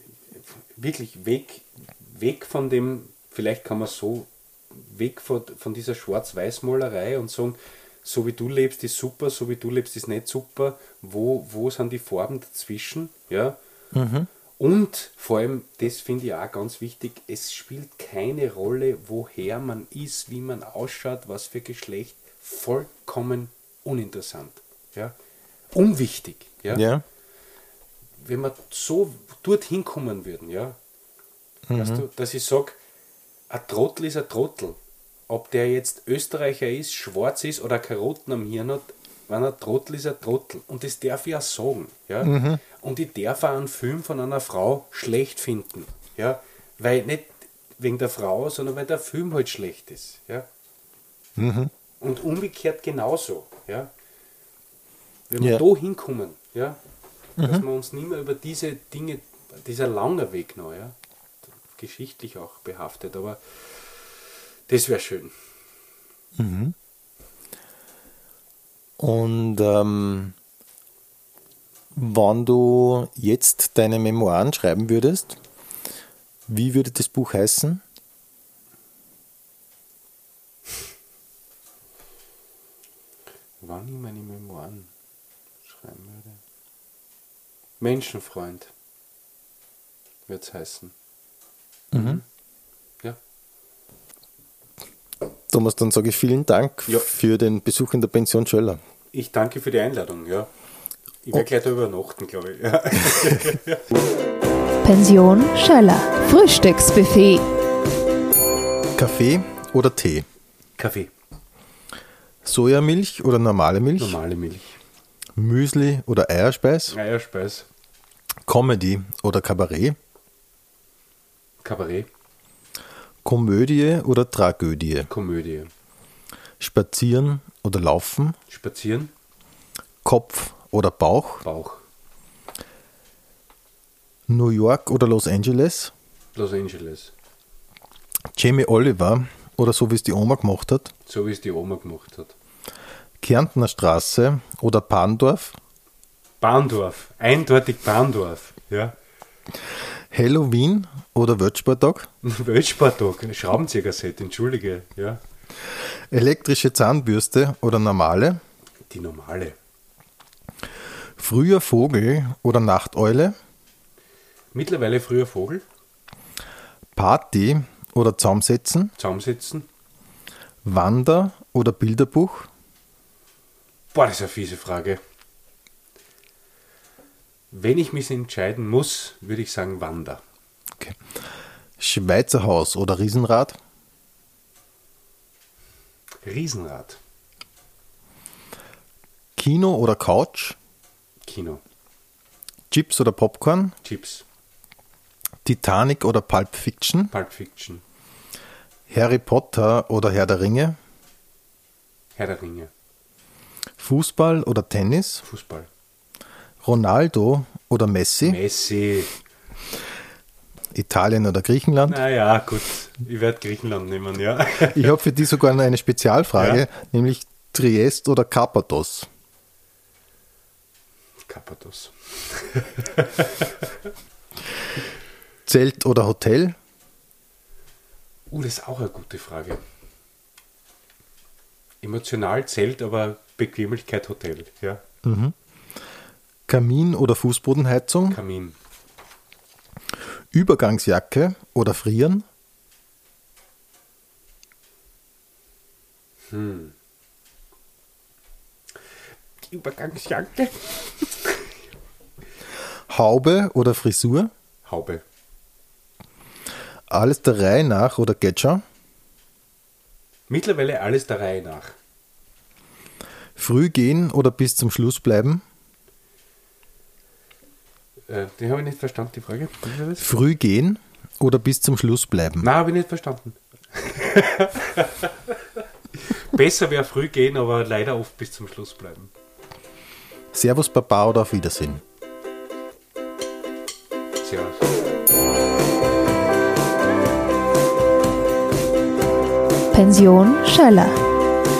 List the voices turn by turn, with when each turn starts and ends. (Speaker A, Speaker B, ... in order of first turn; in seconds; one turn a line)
Speaker A: 0.6-13.6
Speaker B: 13.9-14.3
Speaker A: 14.6-25.1
Speaker A: 25.7-26.9
Speaker B: 26.7-27.0
Speaker A: 28.2-30.8
Speaker B: 31.7-32.0
Speaker A: 31.7-32.8
Speaker A: 33.5-50.5
Speaker B: 42.2-42.6
Speaker B: 51.4-51.7
Speaker A: 52.0-53.9
Speaker A: 55.3-56.8
Speaker B: 57.4-57.6
Speaker A: 57.4-61.0
Speaker A: 61.7-65.3
Speaker B: 66.4-66.7
Speaker B: 69.0-70.3
Speaker B: 71.9-75.4
Speaker B: 76.5-77.8
Speaker A: 83.6-84.9
Speaker A: 85.7-86.4
Speaker A: 87.8-88.7
Speaker A: 90.3-90.9
Speaker B: 91.9-92.2
Speaker A: 91.9-92.2
Speaker B: 95.5-98.8
Speaker A: 99.1-100.5
Speaker A: 101.2-103.8
Speaker C: 104.8-107.4
Speaker B: 109.0-110.2
Speaker A: 110.8-111.1
Speaker B: 112.4-114.2
Speaker A: 114.0-114.8
Speaker B: 115.3-117.0
Speaker A: 116.9-117.7
Speaker B: 118.5-120.0
Speaker A: 121.6-122.1
Speaker B: 123.2-125.1
Speaker A: 125.1-125.7
Speaker B: 126.6-128.3
Speaker A: 128.5-129.1
Speaker B: 130.0-131.4
Speaker A: 131.4-131.8
Speaker B: 134.3-135.9
Speaker A: 136.3-137.1
Speaker B: 138.3-140.9
Speaker A: 141.1-142.3
Speaker B: 143.2-145.6
Speaker A: 146.4-148.9
Speaker B: 150.1-152.1
Speaker A: 152.2-155.2
Speaker B: 155.8-158.4
Speaker A: 158.9-159.6
Speaker B: 161.2-163.3
Speaker A: 164.5-165.6
Speaker B: 166.9-168.9
Speaker A: 169.0-169.7
Speaker B: 170.6-172.5
Speaker A: 173.9-175.0
Speaker A: 177.5-180.2
Speaker B: 181.8-183.6
Speaker A: 186.2-187.0
Speaker B: 189.4-190.6
Speaker A: 191.2-191.6
Speaker B: 192.7-193.7
Speaker A: 193.8-194.2
Speaker B: 195.4-197.1
Speaker A: 197.1-197.8
Speaker B: 198.9-200.8
Speaker A: 202.2-202.7
Speaker B: 203.8-205.2
Speaker A: 205.2-205.7
Speaker B: 206.6-208.4
Speaker A: 208.2-209.1
Speaker B: 210.7-212.0
Speaker A: 211.8-214.9
Speaker B: 214.7-219.1
Speaker A: 216.4-216.6
Speaker A: 221.2-223.6
Speaker B: 225.4-226.6
Speaker A: 228.3-229.6
Speaker A: 231.8-234.8
Speaker B: 235.0-235.3
Speaker B: 236.5-238.2
Speaker A: 238.1-238.6
Speaker B: 240.3-242.2
Speaker A: 246.3-246.7
Speaker A: 249.5-251.5
Speaker B: 252.9-254.3
Speaker A: 254.7-255.0
Speaker B: 256.9-258.6
Speaker A: 260.3-261.8
Speaker B: 263.4-265.4
Speaker A: 268.1-270.1
Speaker B: 270.0-272.5
Speaker A: 272.4-275.4
Speaker A: 275.9-279.1
Speaker B: 280.3-281.8
Speaker A: 284.2-284.7
Speaker C: 289.7-291.0